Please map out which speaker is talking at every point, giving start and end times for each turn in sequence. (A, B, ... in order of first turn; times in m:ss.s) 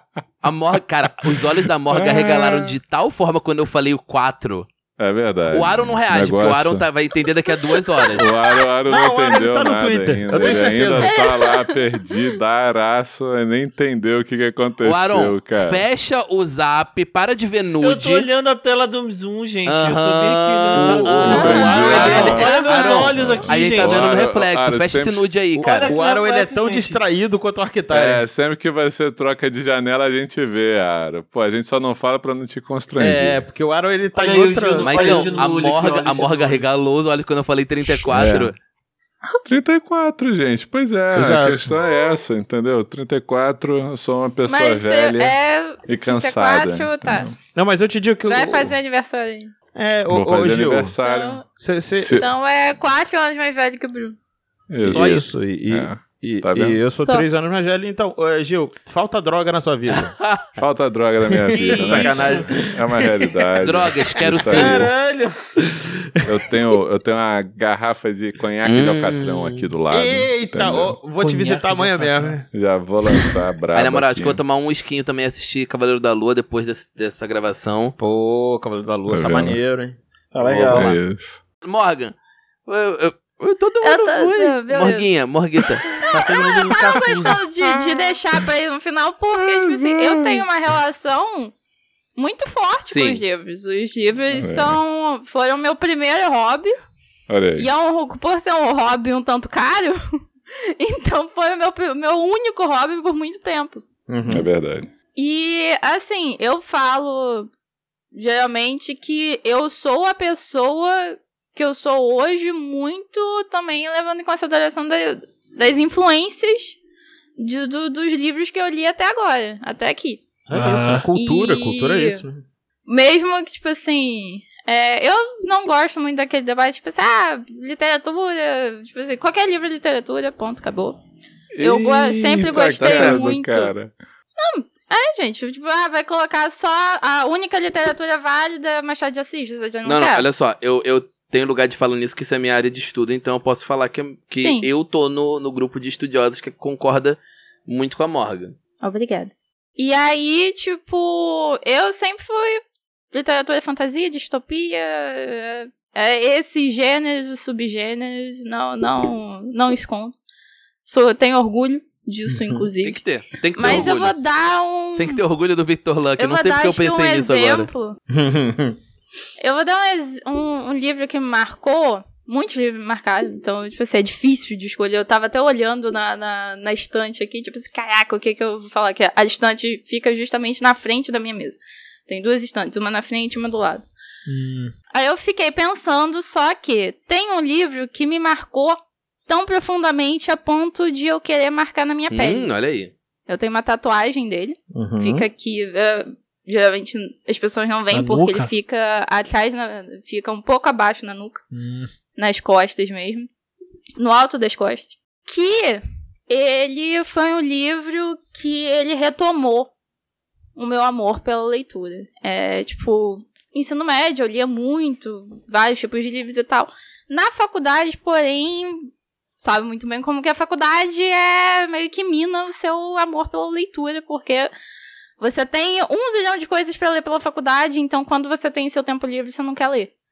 0:00.4-0:04.7 A
0:01.2-0:02.8 B
0:05.0-0:06.8 B
0:05.5-0:08.3 A
0:07.7-0:08.4 C
0:08.1-0:15.8 B
0:08.9-0:11.2 D
0:10.4-0:12.2 C
0:14.8-0:18.3 A
0:17.8-0:24.1 E
0:19.6-0:26.0 A
0:20.8-0:21.3 D
0:21.2-0:22.6 B
0:21.3-0:23.2 C
0:23.1-0:25.2 B
0:25.6-0:28.2 D
0:25.6-0:27.0 E
0:27.9-0:33.4 B
0:33.0-0:35.4 D
0:34.1-0:36.6 E
0:34.8-0:38.6 A
0:38.1-0:38.5 B
0:39.4-0:47.3 B
0:41.1-0:41.7 D
0:44.5-0:47.3 C
0:47.5-0:48.7 D
0:48.3-0:49.5 C
0:49.7-0:50.9 D
0:50.1-0:51.4 B
0:51.0-0:51.4 C
0:51.6-0:52.3 D
0:52.0-0:52.3 B
0:52.1-0:54.2 C
0:54.7-0:56.8 B
0:54.8-1:00.1 D
0:54.8-0:55.4 A
1:00.2-1:00.5 A
1:00.6-1:04.9 B
1:01.3-1:03.4 D
1:01.5-1:02.7 E
1:03.6-1:04.9 A
1:04.3-1:05.0 D
1:04.5-1:05.4 E
1:05.6-1:06.7 D
1:06.2-1:11.0 B
1:08.6-1:09.6 A
1:09.9-1:12.4 D
1:11.2-1:12.4 E
1:12.5-1:14.4 B
1:13.7-1:18.0 A
1:18.0-1:20.0 D
1:19.1-1:19.6 B
1:20.3-1:21.0 E
1:20.4-1:21.0 A
1:20.6-1:21.4 B
1:21.6-1:22.1 A
1:22.7-1:25.9 A
1:23.8-1:25.1 C
1:26.0-1:31.5 C
1:26.1-1:27.4 E
1:29.4-1:30.4 B
1:32.2-1:36.7 C
1:32.9-1:33.2 A
1:34.3-1:34.8 B
1:37.3-1:37.7 B
1:37.6-1:43.8 C
1:44.1-1:44.5 D
1:44.3-1:44.9 B
1:45.2-1:47.5 C
1:48.1-1:56.8 C
1:57.4-2:00.2 C
2:00.5-2:02.4 D
2:00.5-2:01.1 E
2:01.1-2:02.2 C
2:02.9-2:11.0 C
2:11.5-2:13.9 B
2:11.6-2:13.7 C
2:12.8-2:13.3 A
2:14.4-2:20.2 C
2:19.8-2:28.6 A
2:24.4-2:24.6 C
2:28.8-2:32.6 C
2:33.1-2:40.1 C
2:40.8-2:43.0 C
2:42.3-2:42.7 D
2:42.8-2:44.2 A
2:43.6-2:45.2 C
2:45.0-2:47.7 A
2:46.2-2:48.0 C
2:48.1-2:48.8 D
2:49.4-3:03.8 C
3:04.2-3:04.7 E
3:04.9-3:12.5 C
3:12.1-3:12.9 A
3:13.3-3:21.4 C
3:14.7-3:15.3 D
3:17.9-3:18.5 E
3:21.5-3:21.9 E
3:22.2-3:23.3 C
3:24.0-3:29.7 C
3:30.6-3:38.9 C
3:39.4-3:44.5 C
3:45.2-3:49.9 C